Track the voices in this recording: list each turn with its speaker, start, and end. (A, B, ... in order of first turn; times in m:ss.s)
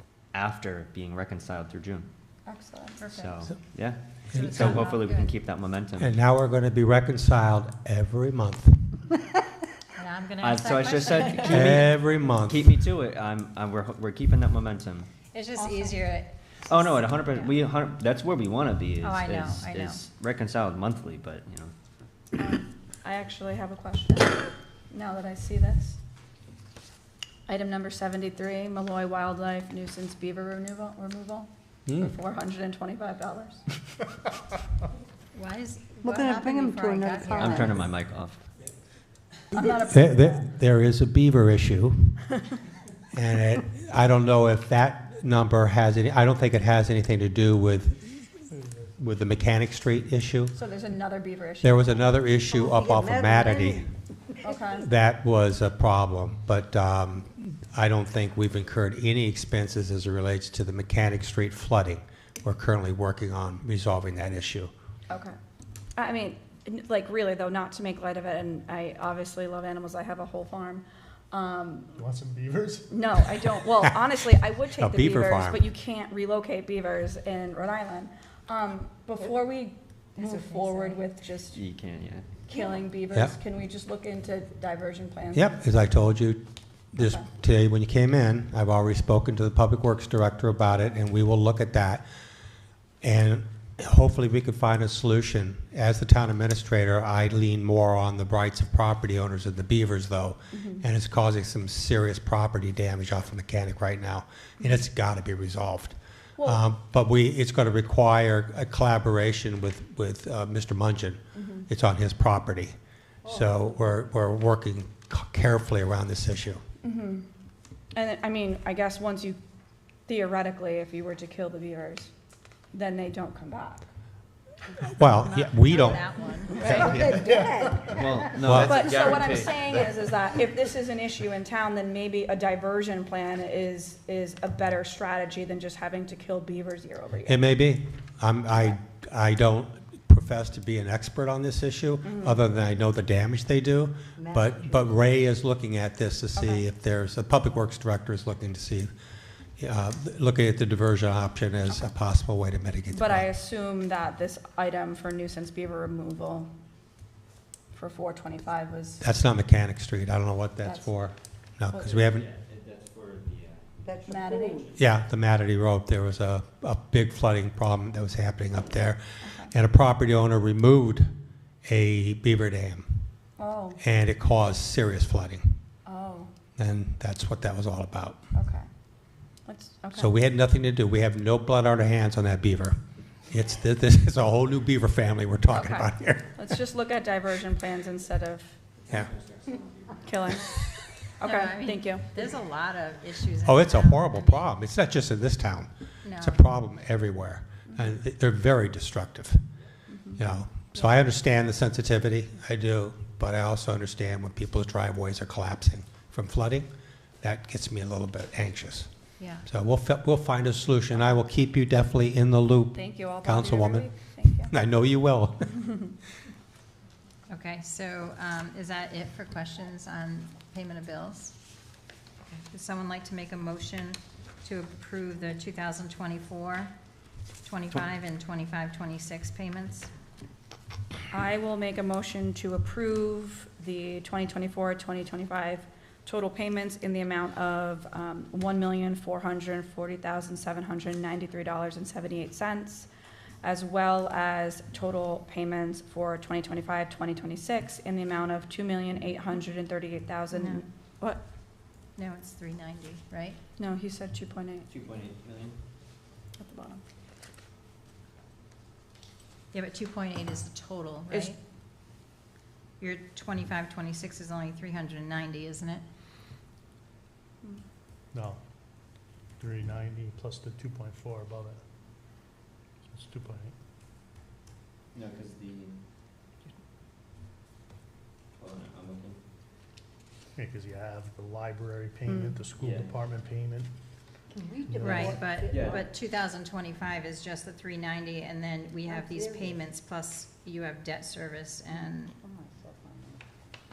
0:00.3-0:02.1 A
0:02.4-0:03.3 B
0:03.0-0:03.3 C
0:03.1-0:06.1 A
0:04.3-0:05.3 C
0:04.3-0:04.9 D
0:06.0-0:09.0 D
0:09.9-0:11.8 C
0:10.4-0:15.1 A
0:11.5-0:12.7 D
0:15.3-0:16.3 C
0:15.6-0:16.0 B
0:16.6-0:21.7 A
0:19.0-0:20.0 C
0:22.4-0:26.0 B
0:27.5-0:33.6 B
0:35.3-0:37.8 C
0:36.0-0:37.8 E
0:37.3-0:38.5 A
0:39.5-0:40.4 B
0:39.9-0:42.2 D
0:43.1-0:48.3 D
0:49.0-0:50.5 D
0:50.5-0:52.1 B
0:51.6-0:53.9 D
0:52.5-0:54.5 E
0:54.4-0:54.8 B
0:54.8-1:04.7 D
1:05.1-1:05.3 B
1:06.0-1:12.0 B
1:12.0-1:13.1 F
1:12.9-1:21.6 B
1:14.7-1:15.6 D
1:20.2-1:21.0 E
1:21.5-1:22.3 A
1:22.5-1:25.5 B
1:25.3-1:32.0 D
1:27.0-1:27.2 B
1:33.0-1:56.6 D
1:40.5-1:40.8 B
1:51.4-1:51.6 B
1:56.8-1:57.2 B
1:57.9-1:59.4 B
2:00.1-2:02.1 B
2:02.7-2:03.8 B
2:04.8-2:06.0 D
2:05.1-2:06.8 C
2:06.6-2:08.4 E
2:06.6-2:07.2 D
2:06.9-2:07.2 A
2:07.8-2:10.0 A
2:08.4-2:08.9 D
2:08.5-2:17.5 B
2:17.2-2:28.9 D
2:22.0-2:22.4 B
2:24.2-2:24.9 E
2:26.4-2:26.6 B
2:29.6-2:33.3 D
2:32.9-2:36.5 B
2:37.7-2:39.0 B
2:39.0-2:42.2 D
2:40.6-2:40.9 B
2:41.8-2:43.8 A
2:43.8-2:44.7 E
2:44.0-2:44.6 B
2:44.7-2:51.1 D
2:49.2-2:49.5 B
2:51.6-2:53.1 D
2:53.4-2:53.8 B
2:53.8-2:55.6 D
2:55.8-2:56.3 B
2:56.6-2:58.2 D
2:58.3-2:58.7 B
2:59.4-3:00.1 B
3:00.0-3:02.8 D
3:03.3-3:06.5 D
3:05.5-3:08.6 B
3:08.8-3:10.1 A
3:10.0-3:10.6 B
3:11.2-3:12.1 B
3:11.2-3:14.5 C
3:13.4-3:19.4 D
3:16.0-3:16.4 C
3:19.9-3:20.2 B
3:20.2-3:26.7 D
3:27.2-3:28.9 D
3:29.2-3:29.5 C
3:29.4-3:35.7 D
3:32.7-3:34.5 B
3:37.3-3:41.4 C
3:42.3-3:46.7 C
3:47.4-3:49.9 C
3:51.1-4:02.9 B
4:03.4-4:11.2 B
4:10.3-4:10.6 C
4:12.0-4:13.4 C
4:13.6-4:14.7 B
4:14.7-4:15.6 A
4:16.4-4:16.8 B
4:19.5-4:21.4 C
4:22.8-4:25.8 C
4:28.1-4:28.4 F
4:29.4-4:31.6 F
4:32.9-4:33.5 F
4:34.9-4:35.8 A
4:38.4-4:39.2 A
4:40.4-4:43.7 F
4:42.1-4:42.4 B
4:42.6-4:42.9 A
4:44.3-4:45.8 E
4:44.7-4:45.2 F
4:44.8-4:52.1 C
4:44.8-4:45.8 A
4:48.9-4:49.5 E
4:52.2-4:53.2 E